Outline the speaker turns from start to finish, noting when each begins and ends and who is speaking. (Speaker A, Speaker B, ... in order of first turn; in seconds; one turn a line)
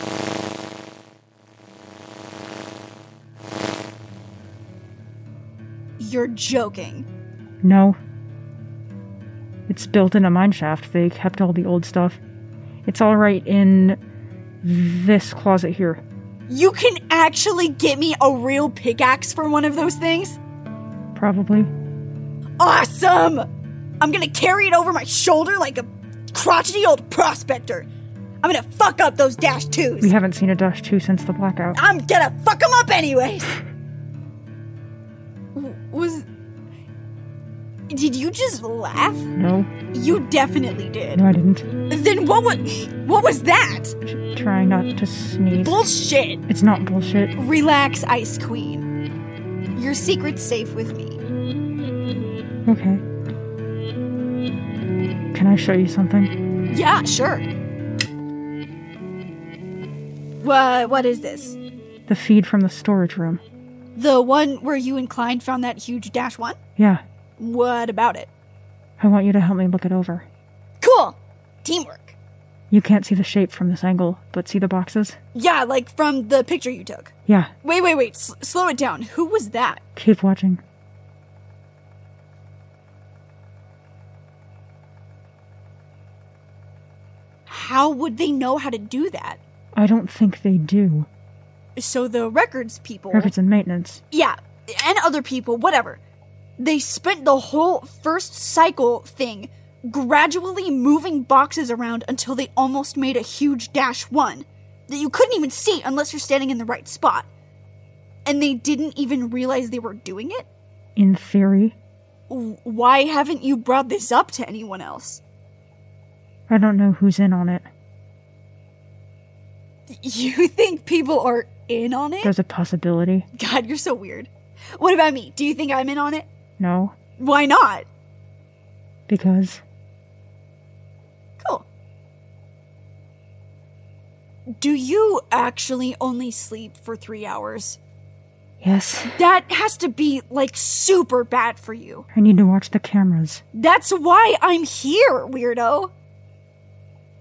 Speaker A: 6.0-7.1
Speaker B: 7.6-8.0
Speaker B: 9.7-12.2
Speaker B: 12.9-14.0
Speaker B: 14.6-16.0
Speaker A: 16.5-20.4
Speaker B: 21.1-21.7
Speaker A: 22.6-23.5
Speaker A: 24.0-27.9
Speaker A: 28.4-30.1
Speaker B: 30.0-31.8
Speaker A: 31.8-33.6
Speaker A: 35.5-36.3
Speaker A: 37.9-39.3
Speaker B: 39.4-39.7
Speaker A: 39.9-41.2
Speaker B: 41.1-41.7
Speaker A: 41.9-44.0
Speaker B: 44.1-45.8
Speaker A: 45.5-46.4
Speaker B: 46.5-47.3
Speaker A: 47.4-48.9
Speaker A: 49.8-51.2
Speaker B: 52.7-53.0
Speaker B: 55.3-56.3
Speaker A: 56.7-57.5
Speaker A: 60.4-61.6
Speaker B: 62.1-63.4
Speaker A: 64.0-66.6
Speaker B: 66.8-67.0
Speaker A: 67.4-68.3
Speaker B: 69.0-70.3
Speaker A: 70.8-72.2
Speaker B: 72.7-75.2
Speaker A: 75.3-77.1
Speaker B: 77.3-77.5
Speaker A: 77.6-79.8
Speaker B: 80.0-80.6
Speaker A: 87.5-89.4
Speaker B: 89.8-91.1
Speaker A: 91.8-93.3
Speaker B: 93.1-94.0
Speaker A: 94.1-96.0
Speaker A: 96.6-107.3
Speaker A: 108.3-110.5
Speaker B: 111.0-111.8
Speaker A: 112.3-115.2
Speaker B: 116.5-117.7
Speaker A: 120.0-122.3
Speaker B: 122.2-123.3
Speaker A: 123.4-126.3
Speaker B: 126.6-127.0
Speaker A: 127.2-127.9
Speaker B: 129.1-129.6
Speaker A: 131.4-131.7
Speaker A: 134.6-137.8
Speaker B: 138.6-139.2
Speaker A: 139.1-142.1
Speaker B: 142.1-143.4
Speaker A: 143.5-145.9